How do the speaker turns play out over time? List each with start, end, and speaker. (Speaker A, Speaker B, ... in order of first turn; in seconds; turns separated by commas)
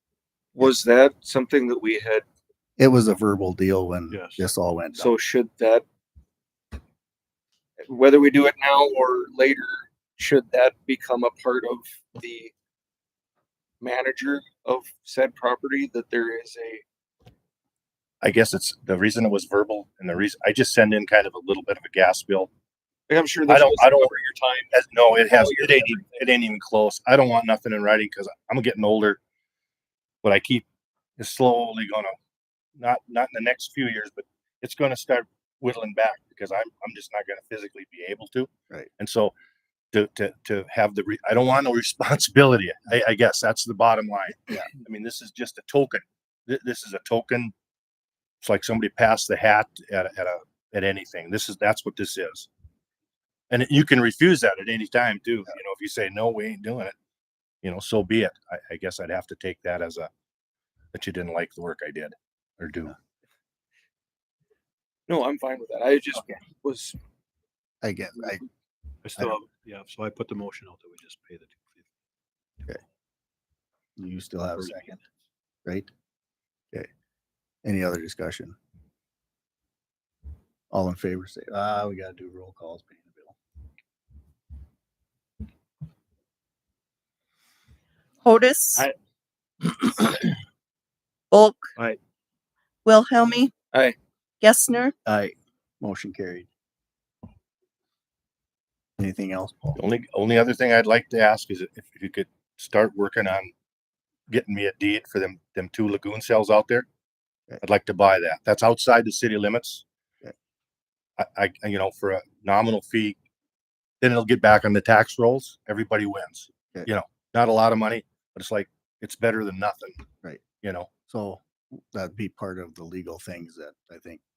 Speaker A: 0.5-2.2, Speaker B: 2.8-5.1, Speaker C: 4.1-4.4, Speaker A: 5.0-5.8, Speaker A: 7.8-12.5, Speaker A: 13.8-16.8, Speaker D: 18.2-22.5, Speaker A: 23.1-26.2, Speaker D: 23.5-24.1, Speaker D: 24.7-29.2, Speaker D: 30.2-30.6, Speaker D: 31.2-32.1, Speaker D: 32.8-39.3, Speaker D: 39.9-47.5, Speaker D: 48.4-52.5, Speaker D: 53.5-56.9, Speaker D: 57.6-60.1, Speaker D: 60.9-62.9, Speaker A: 65.1-67.0, Speaker B: 67.8-68.5, Speaker C: 69.0-71.9, Speaker B: 74.0-75.0, Speaker B: 75.6-75.9, Speaker B: 77.6-78.5, Speaker B: 80.7-83.3, Speaker E: 88.2-88.9, Speaker E: 91.3-91.7, Speaker E: 92.8-93.5, Speaker E: 94.4-94.9, Speaker B: 95.0-96.5, Speaker B: 99.0-99.8, Speaker D: 99.8-103.5, Speaker D: 104.3-106.8, Speaker D: 107.6-109.8, Speaker D: 111.2-113.2, Speaker D: 114.0-120.0, Speaker D: 120.6-120.9, Speaker B: 121.1-124.2